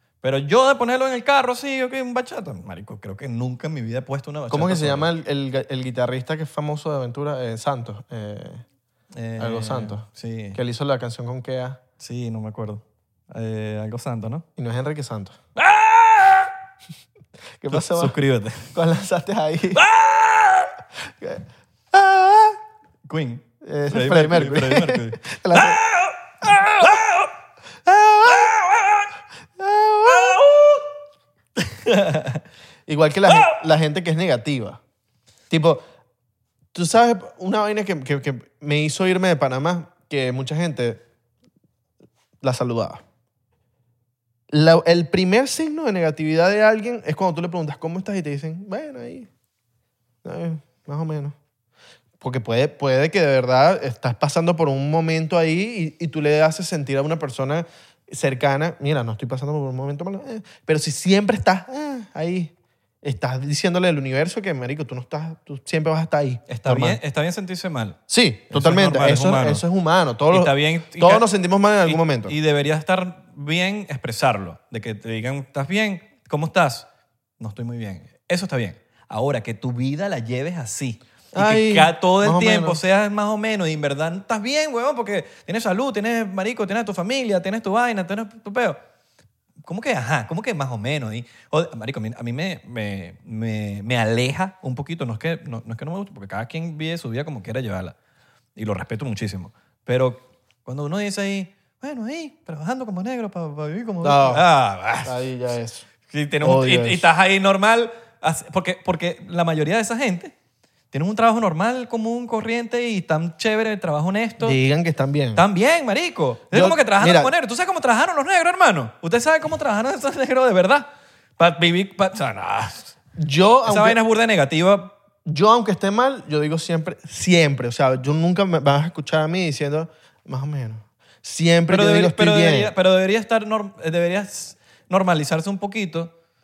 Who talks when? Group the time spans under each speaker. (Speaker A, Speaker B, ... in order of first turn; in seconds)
Speaker A: 0.2-5.1, 9.1-10.6, 12.0-14.4, 15.6-16.5, 17.7-18.7, 19.7-20.7, 23.1-27.3, 28.2-29.1, 30.0-30.7, 31.6-32.4, 33.3-33.5, 66.5-68.0, 68.5-69.6, 70.3-71.3, 71.8-76.9, 77.4-88.8, 89.6-98.0, 98.5-105.2, 106.1-110.3, 110.9-114.6, 115.3-122.9, 123.6-124.9, 131.7-136.1
Speaker B: 4.5-8.6, 9.4-11.8, 14.6-15.4, 17.6-18.1, 18.7-19.8, 21.1-22.6, 23.6-25.8, 26.5-27.0, 27.9-28.5, 29.6-30.5, 32.9-34.8, 35.5-35.8, 36.7-41.0, 42.4-43.0, 44.5-49.3, 50.2-51.4, 52.2-67.0, 68.1-72.3, 81.3-82.8, 104.0-104.5, 105.0-105.9, 106.4-107.1, 114.4-115.4, 116.5-117.3, 123.2-124.0, 125.2-132.7